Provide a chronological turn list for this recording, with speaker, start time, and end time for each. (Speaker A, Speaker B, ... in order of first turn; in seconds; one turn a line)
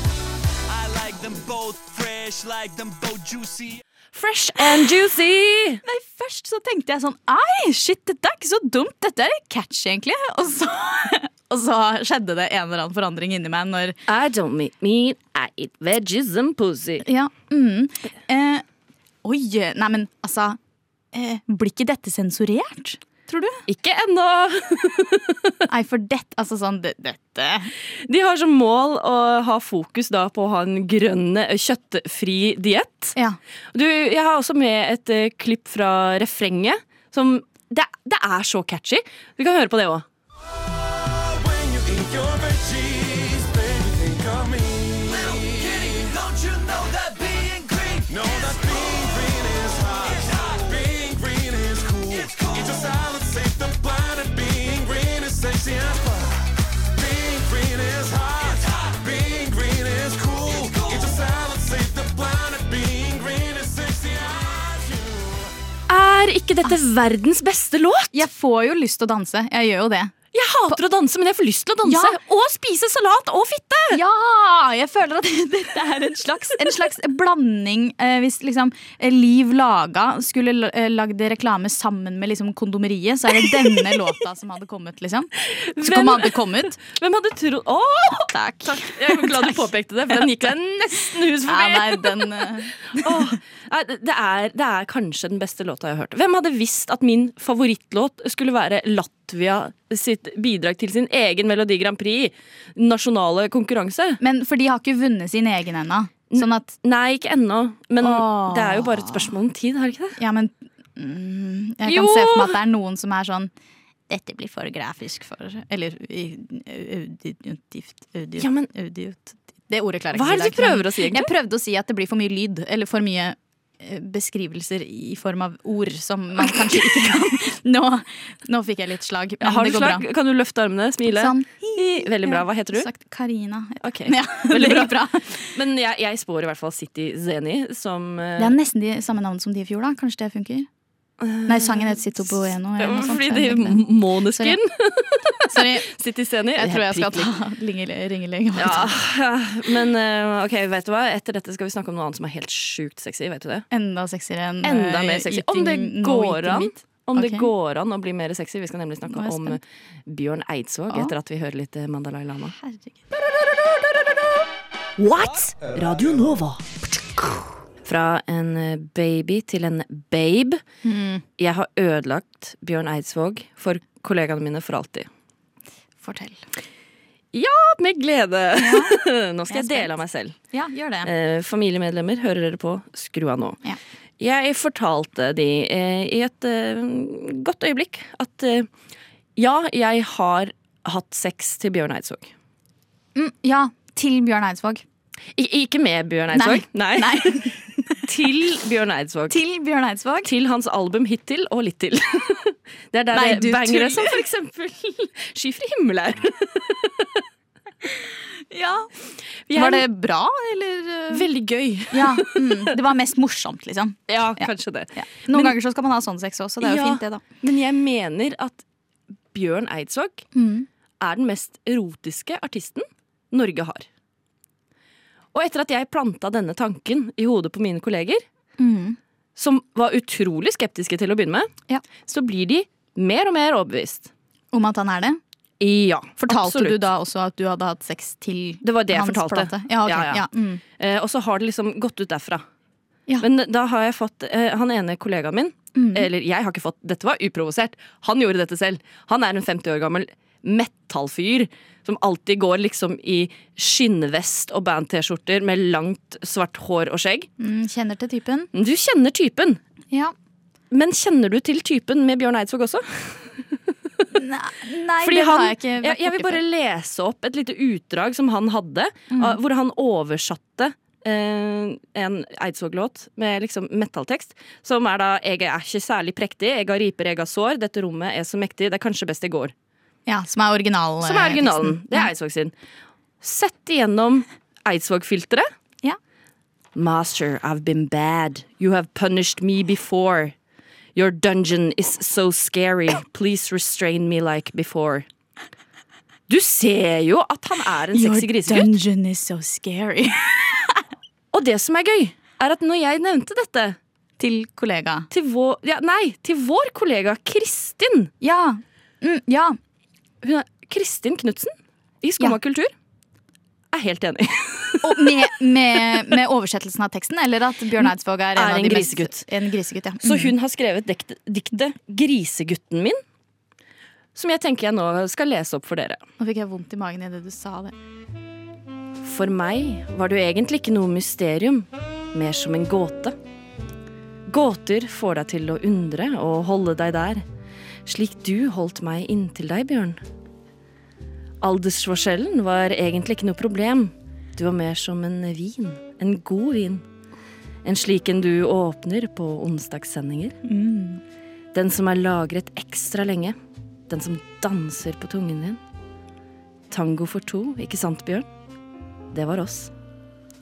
Speaker A: 0.7-3.8
Speaker B: 4.1-5.8
Speaker C: 5.8-14.0
Speaker B: 14.1-17.0
Speaker C: 17.0-18.6
Speaker C: 19.2-20.6
Speaker C: 21.1-23.6
Speaker B: 23.7-25.6
Speaker C: 25.7-27.7
Speaker B: 28.1-33.1
Speaker B: 33.7-40.0
Speaker A: 41.0-65.5
Speaker B: 65.9-68.2
Speaker C: 68.1-70.1
Speaker B: 70.3-74.0
Speaker C: 71.8-72.2
Speaker C: 73.9-86.8
Speaker B: 83.6-84.1
Speaker B: 85.5-104.2
Speaker C: 88.3-90.2
Speaker C: 91.5-93.3
Speaker C: 104.2-106.7
Speaker B: 106.3-110.2
Speaker C: 108.0-109.3
Speaker C: 110.2-113.5
Speaker B: 111.8-112.6
Speaker C: 114.1-130.0
Speaker B: 118.4-118.7
Speaker B: 120.1-121.3
Speaker B: 126.5-127.1
Speaker B: 129.4-132.9
Speaker C: 131.1-135.5
Speaker B: 133.8-138.6
Speaker C: 138.4-140.7
Speaker B: 141.2-147.3
Speaker C: 141.5-144.6
Speaker C: 145.5-145.9
Speaker C: 146.6-148.9
Speaker B: 148.6-153.7
Speaker C: 153.7-157.5
Speaker B: 154.6-162.5
Speaker C: 159.1-159.6
Speaker C: 162.6-162.9
Speaker B: 165.0-166.7
Speaker B: 167.8-170.6
Speaker C: 170.8-171.2
Speaker B: 171.4-175.1
Speaker C: 176.0-176.4
Speaker B: 177.3-180.3
Speaker C: 178.6-179.0
Speaker C: 179.5-179.9
Speaker C: 180.5-181.1
Speaker B: 181.0-183.6
Speaker B: 184.2-188.7
Speaker B: 189.4-192.3
Speaker C: 193.1-194.8
Speaker B: 195.3-197.5
Speaker C: 196.3-198.1
Speaker B: 198.0-199.4
Speaker C: 199.3-200.3
Speaker B: 200.2-207.2
Speaker C: 203.1-204.2
Speaker C: 208.5-208.9
Speaker B: 209.5-209.8
Speaker C: 209.5-211.2
Speaker B: 211.1-212.7
Speaker C: 211.9-217.2
Speaker B: 214.1-215.6
Speaker B: 216.6-218.6
Speaker B: 219.3-220.2
Speaker C: 220.3-220.7
Speaker B: 221.0-223.8
Speaker B: 225.3-228.2
Speaker C: 228.6-229.0
Speaker B: 229.3-231.5
Speaker B: 232.0-234.1
Speaker C: 234.5-235.2
Speaker B: 235.6-236.9
Speaker C: 236.2-240.6
Speaker B: 238.6-240.2
Speaker B: 240.8-242.4
Speaker B: 243.2-257.3
Speaker C: 245.8-246.1
Speaker C: 257.4-258.5
Speaker B: 258.5-259.6
Speaker B: 260.7-263.6
Speaker C: 264.1-266.4
Speaker B: 265.0-279.5
Speaker C: 269.1-269.4
Speaker C: 280.1-282.1
Speaker B: 281.0-282.5
Speaker B: 283.2-285.5
Speaker B: 286.7-290.3
Speaker B: 290.9-295.1
Speaker B: 296.3-298.7
Speaker C: 297.9-300.8
Speaker B: 301.3-303.8
Speaker C: 304.2-305.1
Speaker B: 305.1-308.1
Speaker C: 308.2-309.6
Speaker B: 310.2-312.7
Speaker B: 313.7-315.3
Speaker C: 314.8-320.3
Speaker B: 317.8-319.2
Speaker B: 320.0-323.0
Speaker B: 324.1-326.0
Speaker C: 326.2-327.7
Speaker B: 329.0-333.1
Speaker B: 334.3-337.2
Speaker B: 337.9-340.0
Speaker B: 341.4-346.8
Speaker B: 347.6-350.4
Speaker C: 350.4-351.0
Speaker B: 351.5-353.4
Speaker B: 353.9-355.6
Speaker B: 356.7-358.2
Speaker B: 359.1-359.7